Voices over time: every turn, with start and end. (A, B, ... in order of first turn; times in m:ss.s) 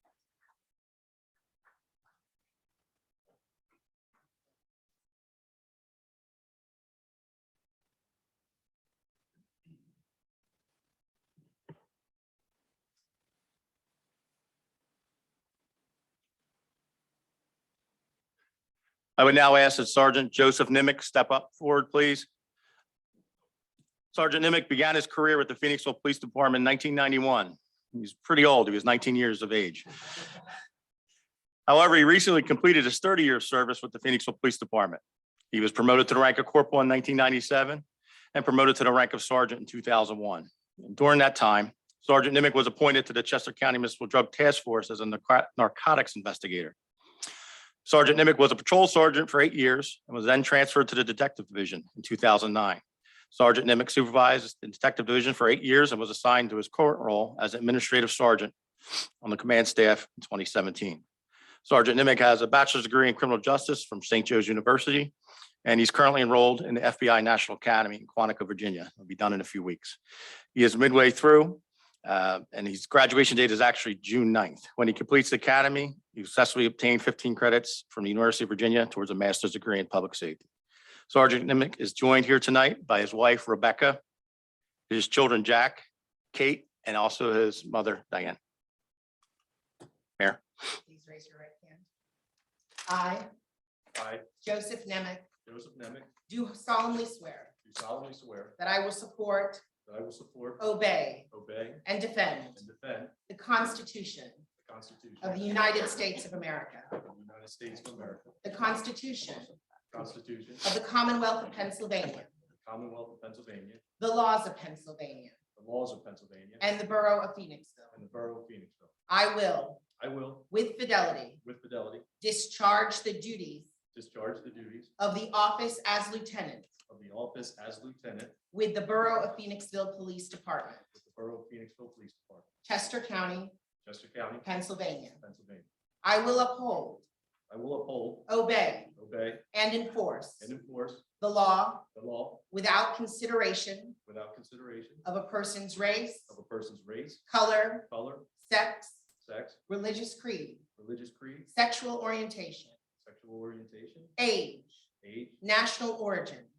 0:19.2-0:22.3 A
0:24.1-0:29.9 A
0:31.7-0:35.0 A
0:35.5-0:46.7 A
0:47.8-0:52.8 A
0:53.3-0:58.5 A
0:59.2-1:01.0 A
1:01.6-1:05.1 A
1:05.6-1:10.0 A
1:10.5-1:20.4 A
1:21.1-1:24.0 A
1:24.9-1:28.4 A
1:30.8-1:31.8 B
1:32.9-1:33.3 B
1:33.9-1:34.2 C
1:34.4-1:35.3 B
1:35.4-1:36.1 C
1:36.3-1:37.5 B
1:37.6-1:38.6 C
1:38.6-1:39.6 B
1:39.8-1:40.6 C
1:40.6-1:41.3 B
1:41.3-1:41.8 C
1:41.8-1:42.6 B
1:42.6-1:43.1 C
1:43.3-1:44.4 B
1:44.6-1:45.5 C
1:45.2-1:46.9 B
1:46.9-1:48.4 C
1:48.4-1:49.5 B
1:49.9-1:50.6 C
1:50.6-1:52.3 B
1:52.6-1:53.8 C
1:54.0-1:55.4 B
1:55.6-1:56.6 C
1:56.6-1:57.9 B
1:57.9-1:58.9 C
1:59.1-1:59.8 B
2:00.0-2:00.5 C
2:00.5-2:01.4 B
2:01.4-2:02.0 C
2:02.2-2:03.7 B
2:03.9-2:04.9 C
2:05.0-2:06.7 B
2:06.9-2:08.4 C
2:08.5-2:10.8 B
2:10.9-2:12.4 C
2:12.6-2:13.6 B
2:13.8-2:14.4 C
2:14.4-2:15.2 B
2:15.2-2:15.6 C
2:16.0-2:17.0 B
2:17.5-2:18.3 C
2:18.3-2:18.9 B
2:18.9-2:19.4 C
2:19.5-2:20.5 B
2:20.4-2:21.0 C
2:21.2-2:21.9 B
2:21.9-2:22.4 C
2:22.5-2:24.0 B
2:24.0-2:25.0 C
2:25.0-2:26.3 B
2:26.3-2:27.2 C
2:27.3-2:29.0 B
2:27.9-2:28.3 C
2:29.2-2:29.6 C
2:29.7-2:30.6 B
2:30.8-2:31.5 C
2:31.5-2:32.7 B
2:33.0-2:34.1 C
2:34.2-2:34.8 B
2:35.0-2:35.4 C
2:35.4-2:36.5 B